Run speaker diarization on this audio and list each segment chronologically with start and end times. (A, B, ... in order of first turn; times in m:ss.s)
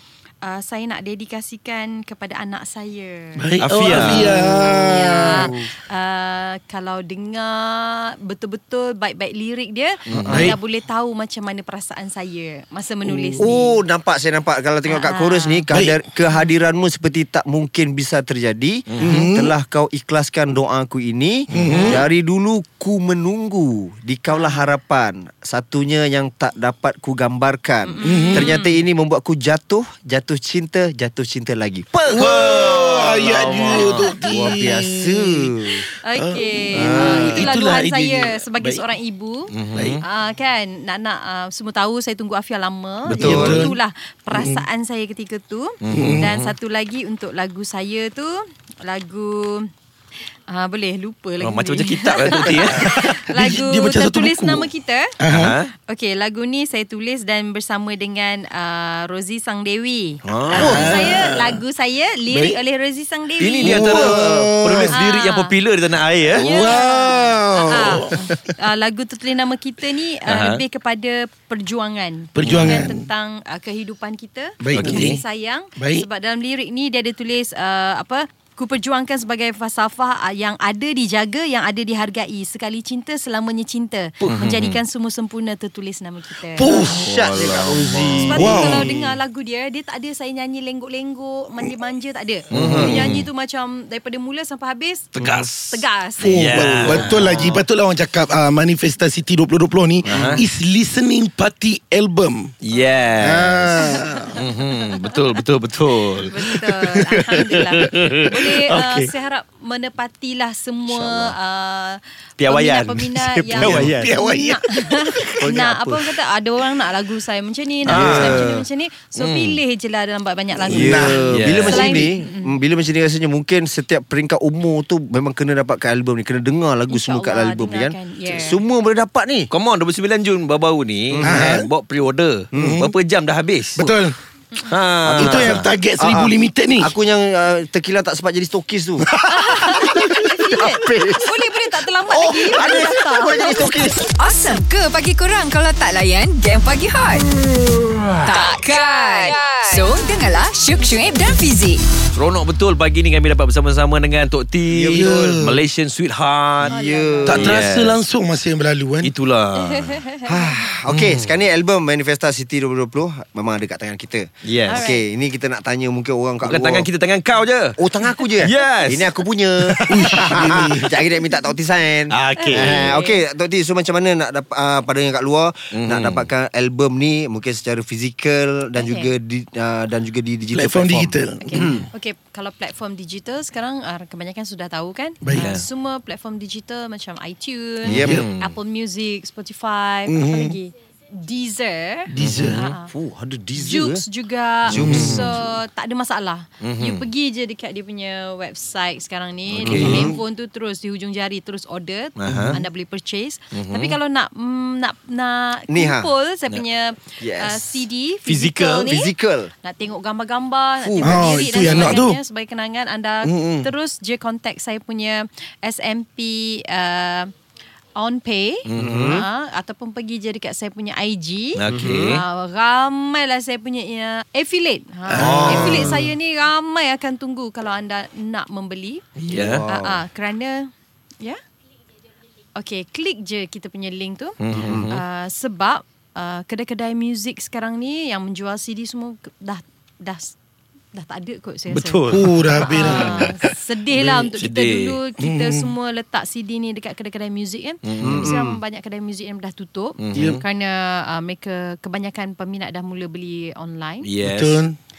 0:00.4-0:03.5 A
0:03.4-0:05.5 B
0:03.6-0:04.4 C
0:04.0-0:13.8 A
0:04.3-0:05.7 D
0:10.1-0:10.6 B
0:10.1-0:10.5 C
0:13.1-0:13.4 B
0:13.4-0:35.8 D
0:14.9-0:15.7 A
0:15.7-0:16.0 B
0:18.9-0:19.2 C
0:19.0-0:19.5 B
0:21.5-0:22.0 B
0:21.7-0:22.0 A
0:27.8-0:28.8 A
0:28.0-0:28.5 B
0:32.1-0:38.8 B
0:32.2-0:33.3 C
0:36.0-0:39.5 A
0:36.7-0:37.5 D
0:39.5-0:40.0 C
0:39.7-0:40.0 B
0:40.0-0:49.7 A
0:43.1-0:43.6 C
0:43.2-0:43.7 D
0:43.2-0:43.7 B
0:44.3-0:44.6 B
0:45.8-0:46.5 C
0:45.9-0:46.3 B
0:50.5-0:55.2 A
0:51.4-0:53.1 C
0:52.7-0:55.6 B
0:55.3-0:55.7 C
0:55.9-1:04.2 A
1:00.2-1:01.0 C
1:00.6-1:01.6 B
1:02.3-1:02.6 B
1:03.4-1:06.7 C
1:03.6-1:05.0 B
1:04.9-1:05.5 A
1:06.3-1:08.2 B
1:06.4-1:26.8 A
1:10.3-1:10.6 C
1:12.3-1:13.0 B
1:12.4-1:12.8 C
1:14.6-1:15.2 B
1:14.7-1:15.1 C
1:15.8-1:16.1 B
1:24.2-1:24.8 C
1:26.5-1:27.1 B
1:26.7-1:29.2 D
1:26.8-1:28.6 C
1:28.3-1:36.7 A
1:28.3-1:28.9 B
1:32.5-1:33.2 C
1:32.5-1:33.0 D
1:35.1-1:37.7 C
1:35.2-1:35.5 D
1:36.2-1:42.5 B
1:40.0-1:40.4 C
1:42.6-1:49.1 C
1:42.7-1:45.1 A
1:43.2-1:44.4 B
1:46.2-2:02.6 A
1:50.9-1:51.4 D
1:52.4-1:54.1 C
1:53.6-1:55.5 B
1:55.4-1:56.1 D
1:57.8-1:58.6 D
1:57.8-1:58.5 C
1:59.1-1:59.6 C
2:00.6-2:09.5 D
2:00.7-2:01.3 B
2:01.3-2:02.0 C
2:06.9-2:08.6 A
2:09.5-2:13.9 C
2:11.1-2:11.7 D
2:11.2-2:11.6 B
2:12.5-2:12.8 D
2:12.6-2:12.9 B
2:13.8-2:14.1 B
2:14.7-2:15.6 C
2:15.0-2:21.4 D
2:15.1-2:16.9 B
2:19.1-2:20.2 B
2:19.2-2:23.9 A
2:22.1-2:24.1 D
2:24.2-2:27.3 E
2:28.2-2:31.8 E
2:32.1-2:36.8 C
2:34.7-2:35.4 D
2:34.9-2:35.6 B
2:36.6-2:37.5 D
2:36.7-2:37.5 A
2:37.2-2:39.1 B
2:37.3-2:38.0 C
2:39.0-2:40.0 C
2:39.6-2:40.6 A
2:40.2-2:46.9 D
2:40.9-2:41.4 C
2:44.4-2:44.9 C
2:44.7-2:45.0 A
2:46.4-2:47.8 C
2:47.8-3:01.9 D
2:48.4-2:50.7 C
2:49.9-2:50.9 B
2:52.1-2:52.8 C
2:52.4-2:53.2 A
2:55.7-2:56.3 C
2:58.8-2:59.1 A
3:00.5-3:01.8 B
3:01.4-3:12.9 A
3:05.2-3:05.5 B
3:05.3-3:05.6 C
3:07.8-3:08.2 D
3:07.9-3:08.5 C
3:07.9-3:08.3 B
3:10.1-3:10.6 B
3:12.1-3:12.7 B
3:12.2-3:12.7 C
3:12.7-3:14.0 D
3:13.6-3:37.3 A
3:14.7-3:15.6 D
3:14.7-3:15.3 C
3:14.8-3:15.2 B
3:16.6-3:17.0 C
3:19.5-3:20.1 C
3:19.6-3:20.2 D
3:22.2-3:22.6 C
3:23.5-3:24.0 C
3:25.7-3:26.1 D
3:27.2-3:27.8 D
3:28.2-3:28.9 C
3:28.8-3:29.5 D
3:30.8-3:31.2 D
3:31.0-3:32.2 B
3:31.6-3:32.0 C
3:33.2-3:33.7 B
3:38.0-3:50.7 A
3:38.6-3:39.2 C
3:38.8-3:39.2 D
3:41.6-3:42.2 C
3:41.7-3:42.1 D
3:45.1-3:45.6 B
3:45.1-3:46.0 C
3:45.2-3:46.1 D
3:49.2-3:49.6 C
3:49.3-3:50.0 D
3:52.6-4:00.4 A
3:54.4-3:55.0 C
3:54.5-3:55.0 D
4:00.9-4:14.1 A
4:01.7-4:03.3 C
4:02.1-4:04.3 B
4:04.4-4:05.0 C
4:05.2-4:05.7 B
4:07.8-4:08.3 C
4:08.0-4:08.5 D
4:10.0-4:10.4 C
4:10.1-4:10.4 B
4:14.0-4:14.6 C
4:14.2-4:14.8 B